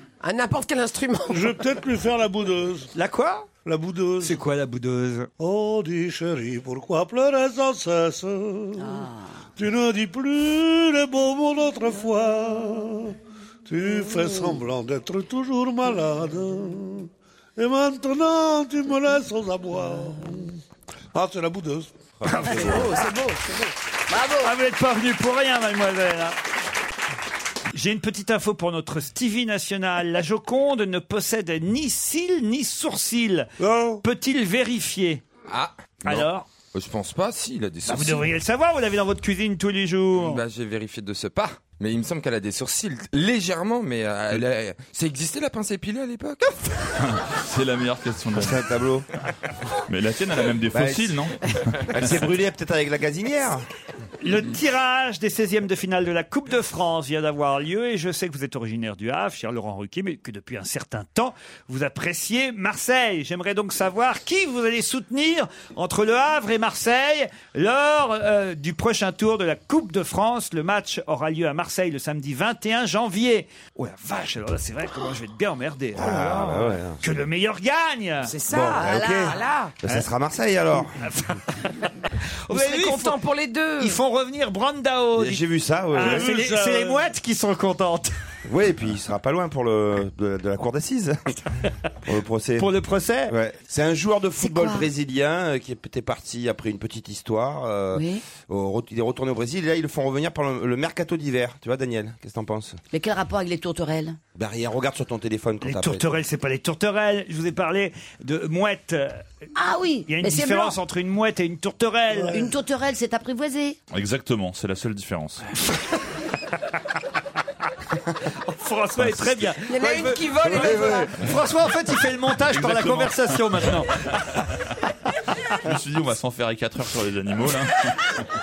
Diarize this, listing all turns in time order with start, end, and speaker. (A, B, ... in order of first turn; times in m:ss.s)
0:00.2-0:01.6 A
0:01.3-0:02.9 B
0:02.9-0:03.5 C
0:03.6-0:04.4 B
0:04.2-0:05.3 C
0:05.4-0:09.0 B
0:09.6-0:20.6 B
0:21.1-0:21.9 B
0:22.2-0:22.9 D
0:22.2-0:23.0 C
0:22.5-0:23.7 A
0:24.1-0:24.5 E
0:24.4-0:26.4 C
0:27.7-0:35.2 C
0:33.6-0:34.0 B
0:35.5-0:38.3 F
0:36.0-0:36.5 C
0:37.9-0:40.4 C
0:40.2-0:46.6 F
0:47.0-0:48.6 G
0:48.4-0:49.1 D
0:49.9-0:52.1 G
0:50.7-0:51.3 D
0:51.9-0:53.6 D
0:54.2-1:18.3 C
1:15.9-1:17.0 D
1:18.2-1:19.7 A
1:18.5-1:21.0 D
1:21.0-1:21.9 C
1:22.5-1:23.2 C
1:22.5-1:24.0 A
1:23.8-1:28.1 C
1:25.2-1:26.3 D
1:26.0-1:27.1 B
1:28.4-1:31.3 D
1:32.0-1:32.7 D
1:32.6-1:33.3 C
1:33.3-1:42.8 D
1:34.4-1:34.9 E
1:37.9-1:38.2 E
1:42.9-1:44.2 E
1:44.4-1:46.1 D
1:45.6-1:49.2 C
1:49.6-1:50.8 E
1:50.1-1:52.4 C
1:52.1-1:52.5 B
1:52.3-1:53.8 E
1:53.9-1:55.5 G
1:58.3-2:04.0 C
1:59.6-2:01.2 A
2:02.5-2:03.3 G
2:05.6-2:08.1 G